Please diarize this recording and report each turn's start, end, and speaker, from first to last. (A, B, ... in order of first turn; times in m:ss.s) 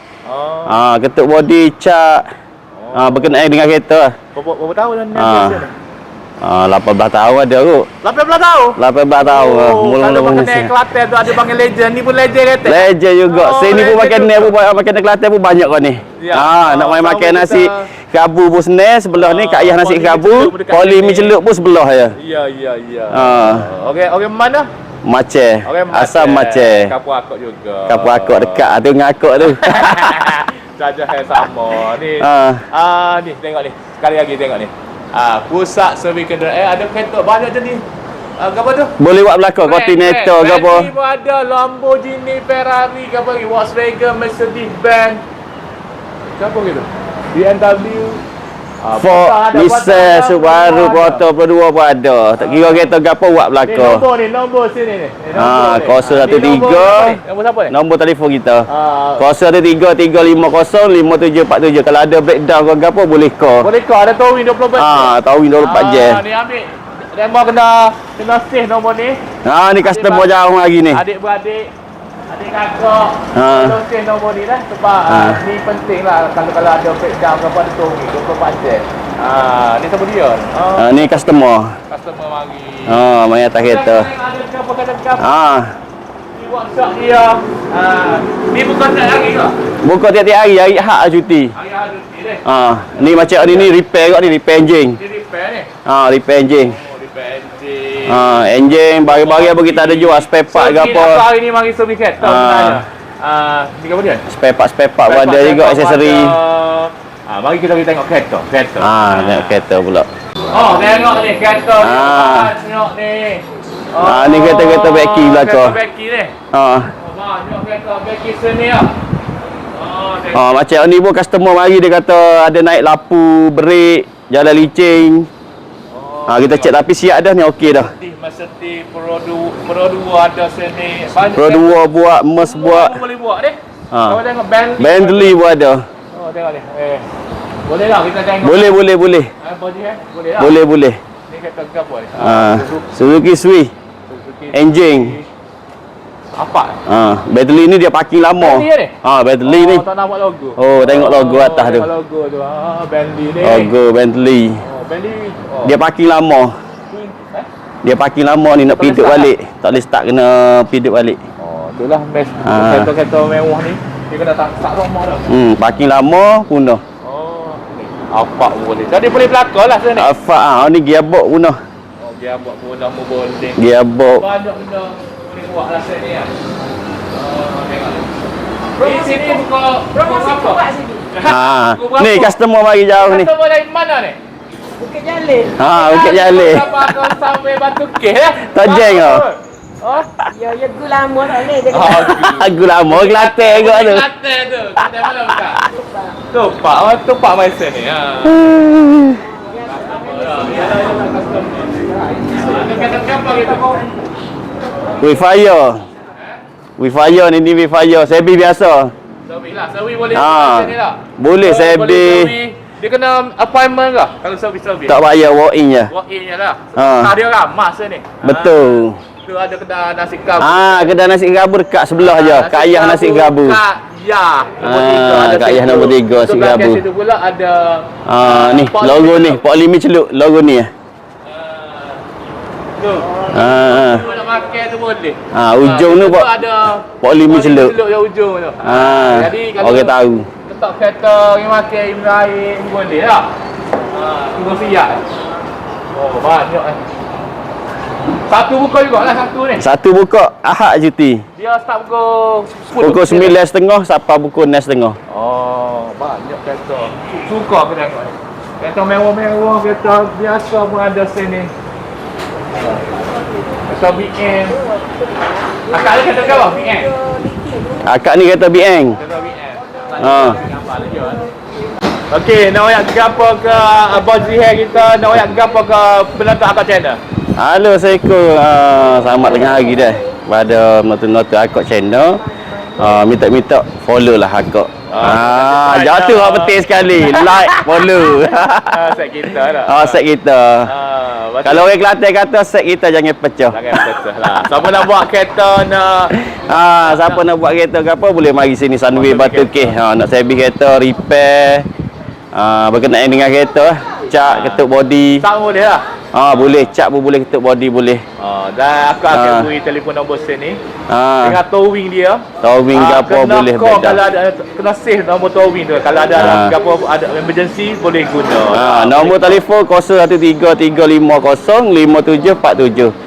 0:00.3-0:00.8 A
0:00.7-0:02.2 B
0:02.8-0:03.4 A
0:02.9-0:04.1 B
0:04.3-0:05.7 A
0:05.1-0:05.6 B
0:06.4-0:07.9 B
0:08.0-0:14.5 A
0:08.8-0:10.7 B
0:12.6-0:22.1 B
0:16.2-0:17.9 A
0:19.1-0:21.4 A
0:22.2-0:24.7 A
0:23.1-0:23.7 B
0:25.0-0:26.9 B
0:25.6-0:28.7 A
0:27.9-0:30.3 B
0:29.4-0:37.8 A
0:32.2-0:32.6 B
0:38.4-0:38.9 A
0:39.0-0:40.9 B
0:39.6-0:45.2 A
0:46.3-0:48.2 A
0:48.8-0:51.3 A
0:49.0-0:54.0 B
0:52.4-0:52.9 A
0:53.6-0:57.7 A
0:55.3-0:58.7 B
0:58.7-0:59.2 A
0:59.2-1:03.7 B
1:03.6-1:09.2 A
1:04.8-1:06.2 B
1:09.4-1:11.0 B
1:09.8-1:10.3 A
1:10.9-1:11.7 A
1:12.3-1:23.0 A
1:13.3-1:13.8 B
1:15.1-1:15.4 B
1:20.8-1:21.7 B
1:22.9-1:24.1 B
1:23.6-1:25.3 A
1:25.2-1:25.7 B
1:26.3-1:29.6 A
1:29.8-1:31.5 B
1:31.5-1:32.4 A
1:32.4-1:35.0 B
1:33.0-1:33.7 A
1:35.0-1:35.7 A
1:35.8-1:36.8 B
1:36.6-1:38.4 A
1:38.1-1:41.3 B
1:38.9-1:44.2 A
1:42.2-1:42.8 B
1:44.3-1:46.4 B
1:45.0-1:49.6 A
1:48.8-1:50.1 B
1:50.5-1:56.3 A
1:51.8-1:52.5 B
1:54.0-1:55.8 B
1:56.5-1:56.9 B
1:57.0-1:58.9 A
1:59.7-2:00.4 A
2:00.3-2:05.3 B
2:05.9-2:06.8 A
2:06.3-2:07.9 B
2:07.6-2:15.4 A
2:11.3-2:13.0 B
2:13.9-2:14.2 B
2:14.8-2:15.8 B
2:16.1-2:17.1 A
2:17.6-2:18.8 A
2:18.4-2:19.3 B
2:19.4-2:20.6 A
2:20.4-2:21.0 B
2:21.3-2:22.9 A
2:22.2-2:23.7 B
2:24.1-2:25.3 A
2:24.5-2:25.2 B
2:26.4-2:26.8 A
2:26.8-2:29.8 B
2:28.4-2:33.7 A
2:30.6-2:31.9 B
2:33.4-2:34.6 B
2:34.6-2:35.8 A
2:35.6-2:36.5 B
2:36.9-2:37.5 A
2:37.8-2:41.2 B
2:38.7-2:39.3 A
2:41.4-2:45.3 A
2:42.4-2:42.9 B
2:45.3-2:46.8 B
2:47.0-2:50.1 A
2:50.0-2:51.6 B
2:52.0-2:53.6 A
2:53.6-2:54.2 B
2:54.2-2:56.3 A
2:57.1-2:58.0 A
2:58.8-3:02.4 A
3:00.4-3:01.0 C
3:01.2-3:03.3 B
3:02.9-3:04.2 A
3:04.8-3:05.6 C
3:05.6-3:06.9 B
3:05.6-3:10.2 A
3:08.4-3:09.2 B
3:10.3-3:11.9 C
3:11.5-3:15.7 A
3:11.9-3:14.1 B
3:16.3-3:18.6 A
3:18.2-3:19.2 B
3:19.6-3:23.9 A
3:19.7-3:20.4 C
3:25.0-3:25.8 B
3:26.8-3:28.9 B
3:29.3-3:35.0 A
3:30.1-3:32.3 B
3:34.9-3:35.9 B
3:35.9-3:38.7 A
3:36.8-3:37.1 B
3:38.2-3:39.0 B
3:39.2-3:40.9 A
3:40.4-3:43.6 B
3:42.0-3:49.4 A
3:44.6-3:46.8 B
3:48.1-3:50.7 B
3:51.2-3:52.0 A
3:52.8-4:03.3 A
3:53.3-3:54.0 B
3:55.3-3:56.3 B
3:56.8-3:57.8 B
3:58.6-4:00.3 B
4:03.9-4:05.0 A
4:05.9-4:06.8 A
4:08.1-4:09.6 A
4:09.6-4:11.2 B
4:11.4-4:13.4 A
4:12.8-4:15.0 B
4:15.1-4:21.5 A
4:23.7-4:24.6 A
4:25.7-4:27.0 A
4:27.1-4:27.6 C
4:27.8-4:29.0 B
4:29.0-4:31.3 A
4:30.0-4:30.4 B
4:32.1-4:37.0 A
4:37.4-4:48.9 B
4:44.9-4:47.9 A
4:48.7-4:50.0 A
4:49.6-4:50.7 B
4:50.6-4:51.7 A
4:51.4-4:53.8 B
4:53.5-4:57.2 A
4:56.2-5:01.7 B
4:58.9-4:59.7 A
5:02.3-5:05.2 B
5:04.2-5:04.6 A
5:05.2-5:05.8 A
5:06.1-5:08.0 B
5:08.2-5:10.6 A
5:09.1-5:09.5 B
5:10.9-5:11.4 B
5:11.2-5:19.4 A
5:12.4-5:14.0 B
5:16.1-5:16.5 B
5:18.5-5:22.9 B